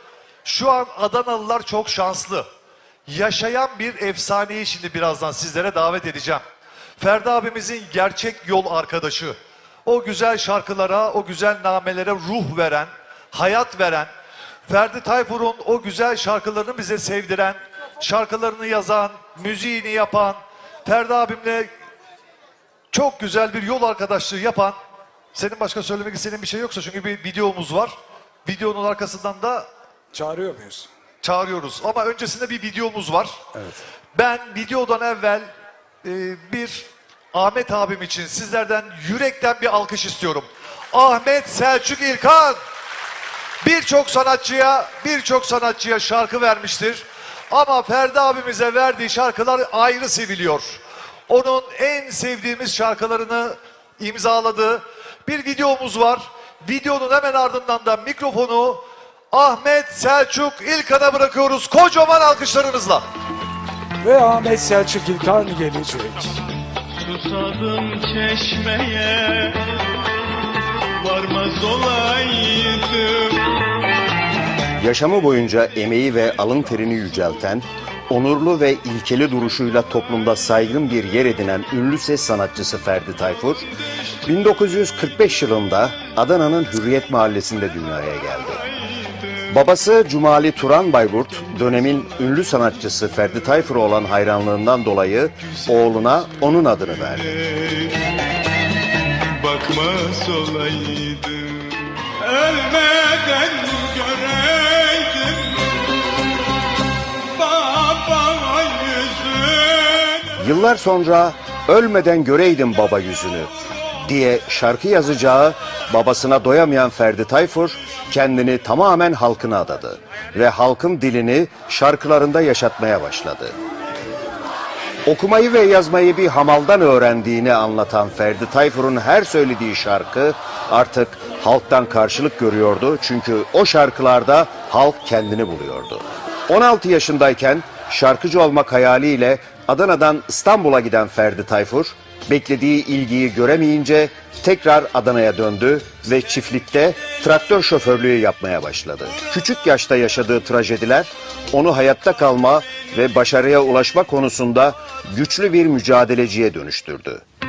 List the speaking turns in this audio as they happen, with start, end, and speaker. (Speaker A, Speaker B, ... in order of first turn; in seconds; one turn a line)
Speaker A: 0.4-2.5
Speaker A: 3.1-6.4
Speaker A: 7.0-14.1
Speaker A: 14.7-21.7
Speaker A: 22.9-24.8
Speaker A: 25.3-27.9
Speaker A: 28.4-29.7
Speaker B: 30.1-30.9
Speaker A: 31.2-33.4
Speaker A: 34.1-35.5
Speaker A: 36.0-42.6
Speaker A: 43.6-63.0
Speaker B: 64.0-66.3
Speaker C: 67.0-69.6
Speaker C: 71.0-73.5
Speaker D: 74.8-83.6
Speaker D: 84.2-88.6
Speaker C: 88.5-89.6
Speaker D: 89.5-97.4
Speaker C: 97.1-98.0
Speaker C: 99.3-105.8
Speaker C: 107.3-110.4
Speaker D: 110.4-113.5
Speaker D: 114.0-123.5
Speaker D: 125.0-157.2